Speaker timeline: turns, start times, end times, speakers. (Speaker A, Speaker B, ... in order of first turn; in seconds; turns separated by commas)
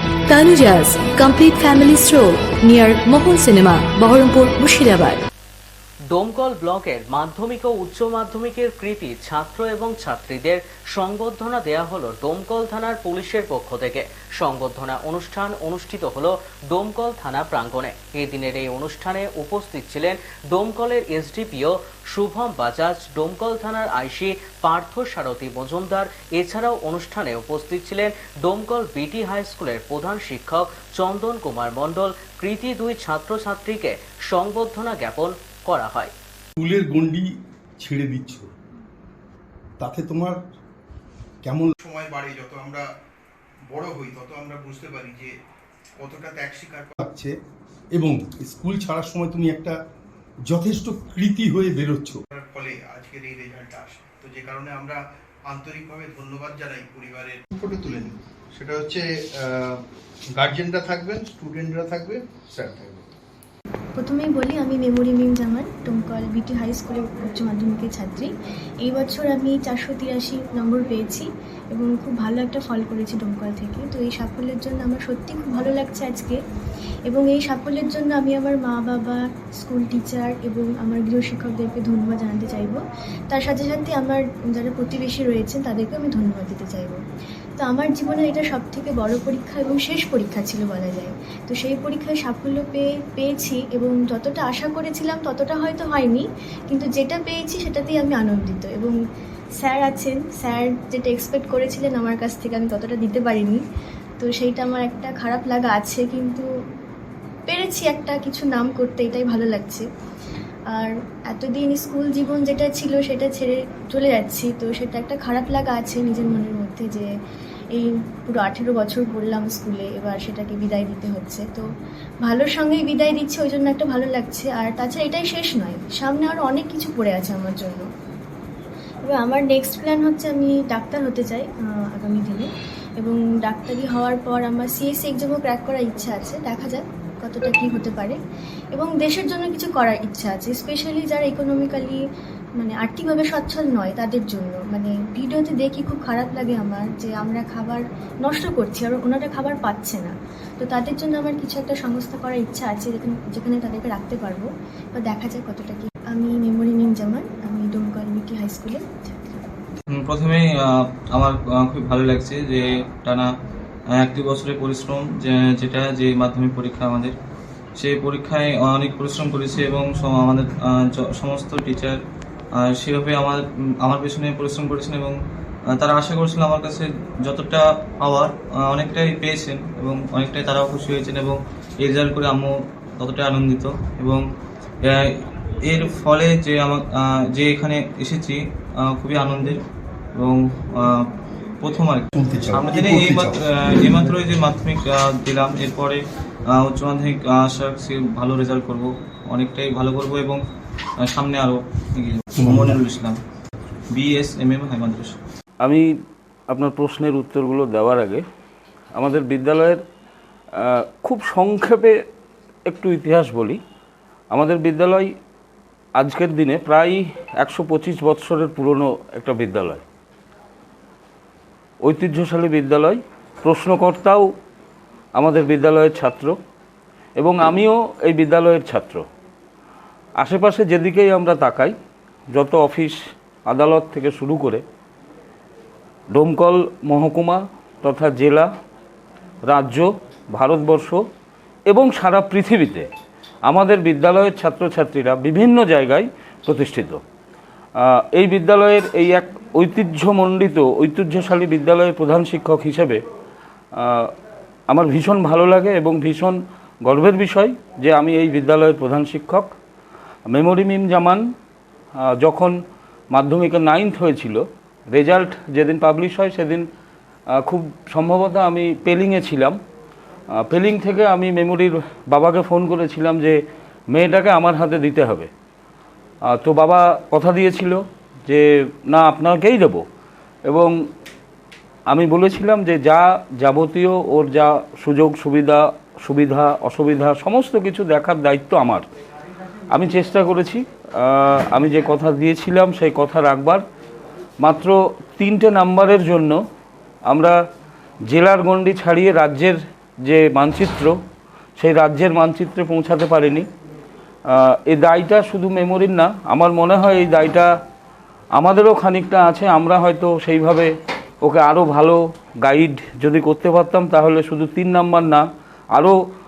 Speaker A: 0.3-5.2, Speaker B: 6.1-36.1, Speaker C: 36.6-38.5, Speaker C: 39.8-40.4, Speaker C: 41.4-41.8, Speaker D: 41.9-42.6, Speaker C: 42.5-42.8, Speaker D: 43.7-45.3, Speaker D: 46.0-46.9, Speaker C: 47.0-47.3, Speaker C: 47.9-49.8, Speaker C: 50.5-52.2, Speaker D: 52.3-54.9, Speaker D: 55.5-58.1, Speaker D: 58.6-59.0, Speaker D: 60.4-62.2, Speaker C: 60.5-61.9, Speaker C: 62.5-63.0, Speaker E: 64.0-68.3, Speaker E: 68.8-76.4, Speaker E: 77.1-82.8, Speaker E: 83.3-87.0, Speaker E: 87.6-98.9, Speaker E: 99.6-103.6, Speaker E: 104.2-106.5, Speaker E: 107.5-109.8, Speaker E: 110.7-117.1, Speaker E: 117.7-121.6, Speaker E: 122.2-127.8, Speaker E: 129.0-132.5, Speaker E: 133.0-138.2, Speaker E: 138.7-142.0, Speaker E: 142.6-158.8, Speaker F: 159.9-163.3, Speaker F: 163.9-167.1, Speaker F: 167.8-172.0, Speaker F: 172.5-175.2, Speaker F: 175.7-184.2, Speaker F: 184.8-189.6, Speaker F: 190.2-191.1, Speaker F: 191.6-200.4, Speaker C: 192.1-193.4, Speaker F: 201.0-203.2, Speaker C: 202.4-202.8, Speaker F: 203.9-205.2, Speaker G: 206.5-208.2, Speaker G: 208.9-209.8, Speaker G: 210.6-212.0, Speaker G: 212.7-213.6, Speaker G: 214.3-215.1, Speaker G: 216.0-219.8, Speaker G: 221.8-224.3, Speaker G: 225.1-226.3, Speaker G: 227.2-229.0, Speaker G: 230.2-231.7, Speaker G: 232.3-234.6, Speaker G: 236.1-238.5, Speaker G: 239.4-241.0, Speaker G: 241.7-242.9, Speaker G: 243.4-247.0, Speaker G: 247.8-253.0, Speaker G: 253.7-254.1, Speaker G: 254.7-259.5, Speaker G: 260.3-261.2, Speaker G: 262.0-262.5, Speaker G: 263.1-266.6, Speaker G: 267.3-269.6, Speaker G: 270.3-273.4, Speaker G: 273.9-275.3, Speaker G: 276.2-279.8, Speaker G: 280.4-280.8, Speaker G: 281.9-288.9, Speaker G: 289.7-293.6, Speaker G: 294.4-296.4, Speaker G: 297.1-297.4, Speaker G: 298.1-300.9, Speaker G: 301.6-303.5, Speaker G: 304.3-307.5, Speaker G: 308.3-310.7, Speaker G: 311.2-315.9